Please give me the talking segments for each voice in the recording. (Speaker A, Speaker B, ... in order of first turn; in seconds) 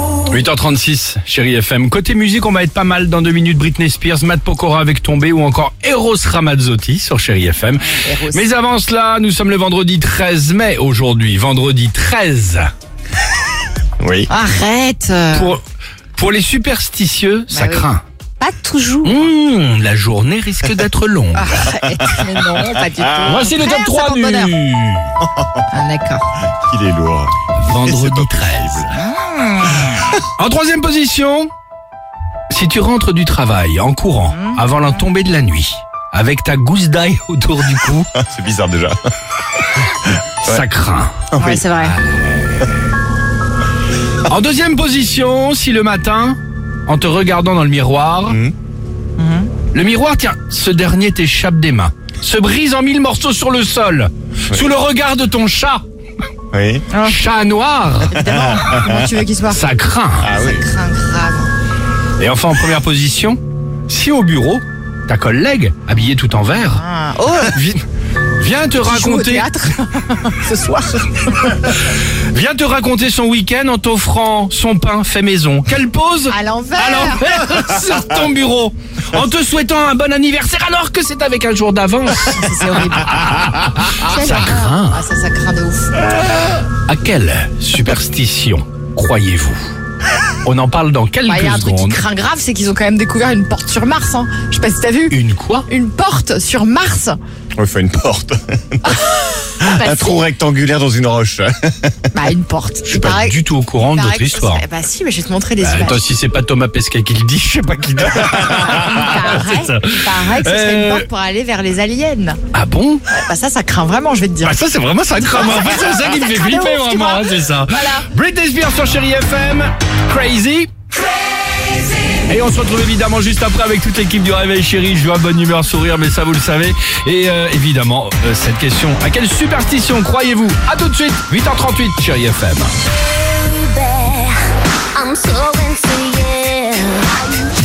Speaker A: 0.3-12.7, 15.3-15.6, 16.2-18.0, 19.0-21.7, 23.2-25.1, 27.5-28.9, 30.1-31.5, 32.5-38.1, 40.4-41.3, 41.8-42.6, 44.3-48.4, 49.7-55.8, 57.0-58.2, 59.5-60.3, 62.2-66.8, 67.5-67.8, 68.4-69.5, 71.9-85.0, 86.9-89.6, 90.4-92.0, 95.1-95.7, 102.9-104.6, 105.6-111.1, 112.5-113.0, 114.4-120.7, 122.2-132.7
Speaker B: 7.8-8.5, 14.3-15.6, 17.5-17.9, 18.4-19.3, 21.4-24.6, 25.7-26.3, 28.9-30.1, 34.3-34.8, 41.4-42.0, 49.2-49.5, 56.9-57.2, 58.1-59.7, 60.3-61.5, 66.6-67.6, 68.8-71.7, 76.3-77.4, 82.3-86.0, 91.3-97.2, 98.8-100.2, 102.1-106.0, 108.4-112.4, 113.1-114.6, 115.3-118.1
Speaker C: 14.0-14.3, 23.0-23.5, 26.6-29.0, 38.1-39.1, 41.3-41.7, 48.3-48.5, 56.5-56.9, 58.3-59.1, 60.2-60.6, 97.6-99.0, 99.6-102.1
Speaker D: 133.2-137.5